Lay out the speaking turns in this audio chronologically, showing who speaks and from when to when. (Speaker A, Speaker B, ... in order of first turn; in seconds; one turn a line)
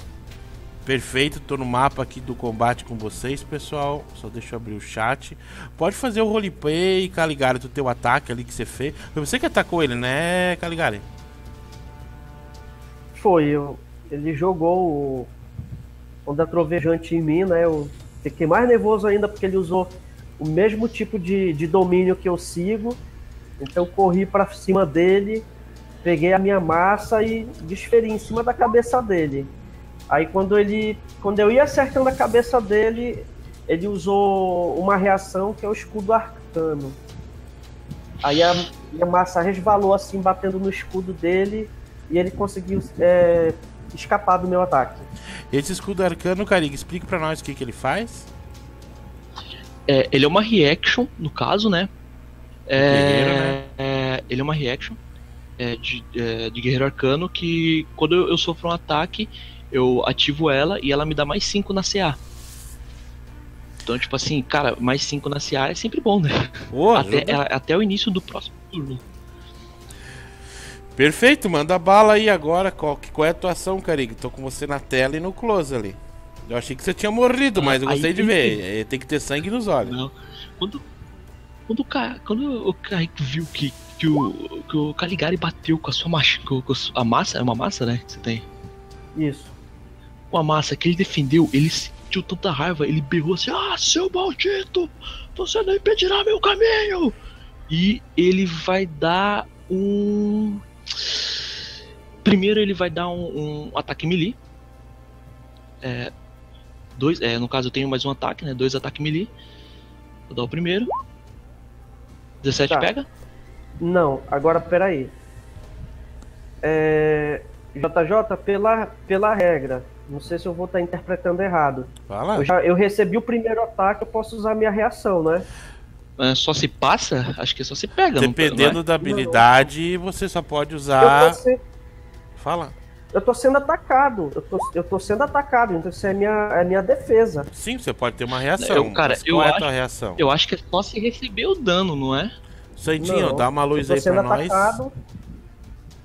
Speaker A: 0.8-11.1
Speaker B: 13.2-15.3
Speaker B: 16.3-23.0
Speaker B: 23.6-25.5
Speaker B: 26.0-29.5
Speaker B: 30.1-37.0
Speaker B: 38.2-45.1
Speaker A: 45.5-48.3
Speaker C: 49.9-51.9
Speaker C: 52.7-55.0
Speaker A: 52.8-53.6
Speaker C: 55.6-62.2
Speaker C: 63.9-69.0
Speaker A: 66.7-67.4
Speaker A: 71.0-80.0
Speaker C: 77.6-78.6
Speaker C: 79.8-80.8
Speaker C: 81.7-88.4
Speaker B: 89.2-89.5
Speaker C: 90.3-97.2
Speaker C: 97.7-101.6
Speaker C: 102.2-104.4
Speaker C: 105.8-106.1
Speaker C: 107.0-109.3
Speaker C: 110.3-110.9
Speaker C: 112.4-113.1
Speaker B: 113.8-115.1
Speaker B: 116.6-125.5
Speaker A: 122.1-122.5
Speaker C: 126.2-128.8
Speaker A: 128.2-131.4
Speaker B: 129.0-129.7
Speaker B: 131.0-131.6
Speaker A: 132.4-132.8
Speaker B: 133.1-137.5
Speaker A: 137.5-140.2
Speaker C: 138.6-142.3
Speaker A: 142.8-144.8
Speaker B: 143.0-144.9